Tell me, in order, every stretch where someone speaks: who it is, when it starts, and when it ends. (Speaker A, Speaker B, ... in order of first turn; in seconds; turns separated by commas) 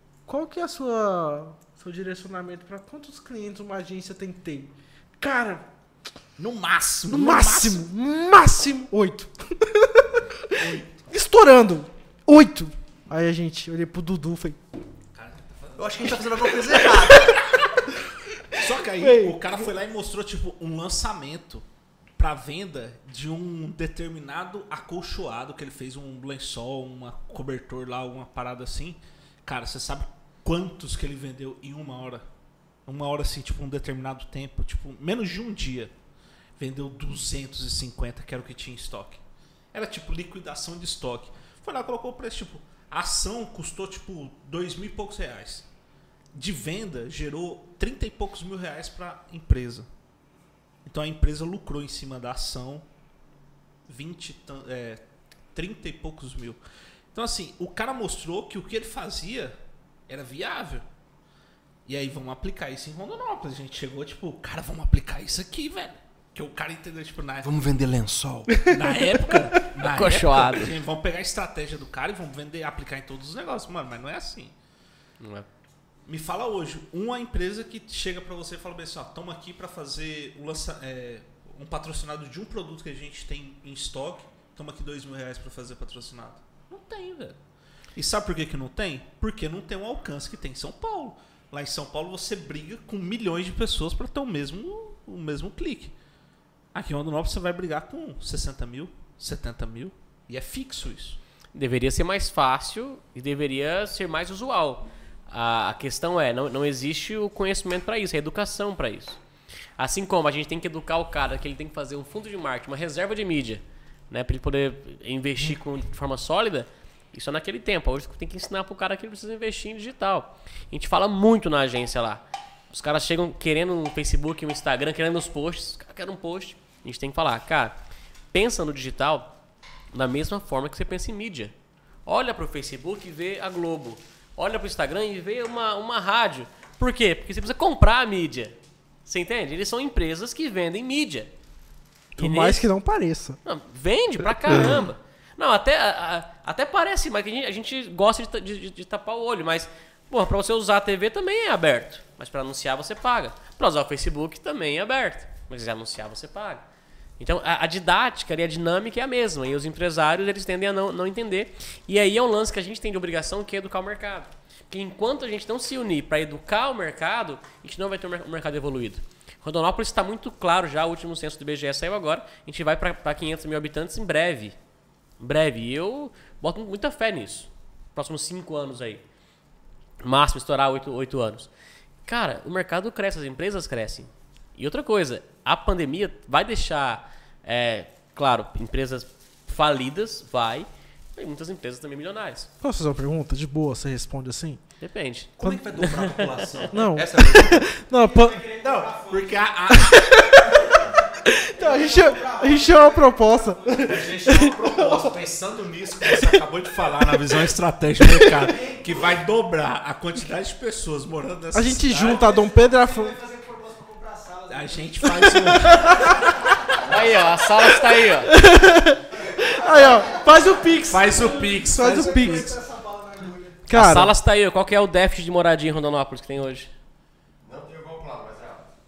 Speaker A: 0.2-5.7, Speaker B: 6.4-7.8, Speaker A: 7.1-14.6, Speaker B: 10.6-11.0, Speaker B: 15.1-16.7, Speaker C: 15.8-17.4, Speaker A: 16.5-17.4, Speaker A: 18.5-19.6, Speaker B: 18.5-21.6, Speaker B: 22.2-32.2, Speaker B: 32.9-35.9, Speaker B: 36.6-45.6, Speaker B: 46.3-49.9, Speaker B: 50.8-52.8, Speaker B: 53.9-55.0, Speaker B: 55.5-56.6, Speaker B: 57.1-59.5, Speaker B: 60.1-60.8, Speaker B: 61.9-67.6, Speaker C: 67.4-68.7, Speaker B: 68.7-74.5, Speaker D: 69.8-70.7, Speaker D: 75.2-75.5, Speaker B: 76.0-87.4, Speaker B: 87.9-95.9, Speaker B: 96.7-101.2, Speaker D: 101.5-109.2, Speaker D: 109.8-127.8, Speaker D: 128.3-129.3, Speaker D: 129.9-131.5, Speaker D: 132.1-141.3, Speaker A: 142.2-143.4, Speaker D: 142.2-142.7, Speaker D: 143.4-156.6, Speaker D: 157.2-174.6, Speaker D: 175.2-179.0, Speaker D: 180.0-181.5, Speaker D: 182.1-192.5, Speaker A: 192.6-194.7, Speaker D: 194.8-196.6, Speaker C: 195.4-197.7, Speaker A: 196.7-198.4, Speaker E: 197.9-199.5, Speaker B: 198.6-200.7, Speaker A: 199.8-200.5, Speaker E: 200.7-201.0, Speaker A: 201.3-205.0, Speaker E: 201.5-204.3, Speaker B: 203.8-212.2, Speaker A: 206.1-206.3, Speaker E: 208.3-209.1, Speaker A: 211.5-213.1, Speaker E: 211.9-216.9, Speaker B: 214.5-216.6, Speaker A: 215.2-216.3, Speaker D: 216.7-218.3, Speaker A: 218.2-222.6, Speaker E: 219.5-221.5, Speaker B: 220.9-222.5, Speaker F: 221.9-223.0, Speaker E: 222.3-223.5, Speaker A: 223.7-224.1, Speaker D: 223.7-226.7, Speaker F: 227.4-228.6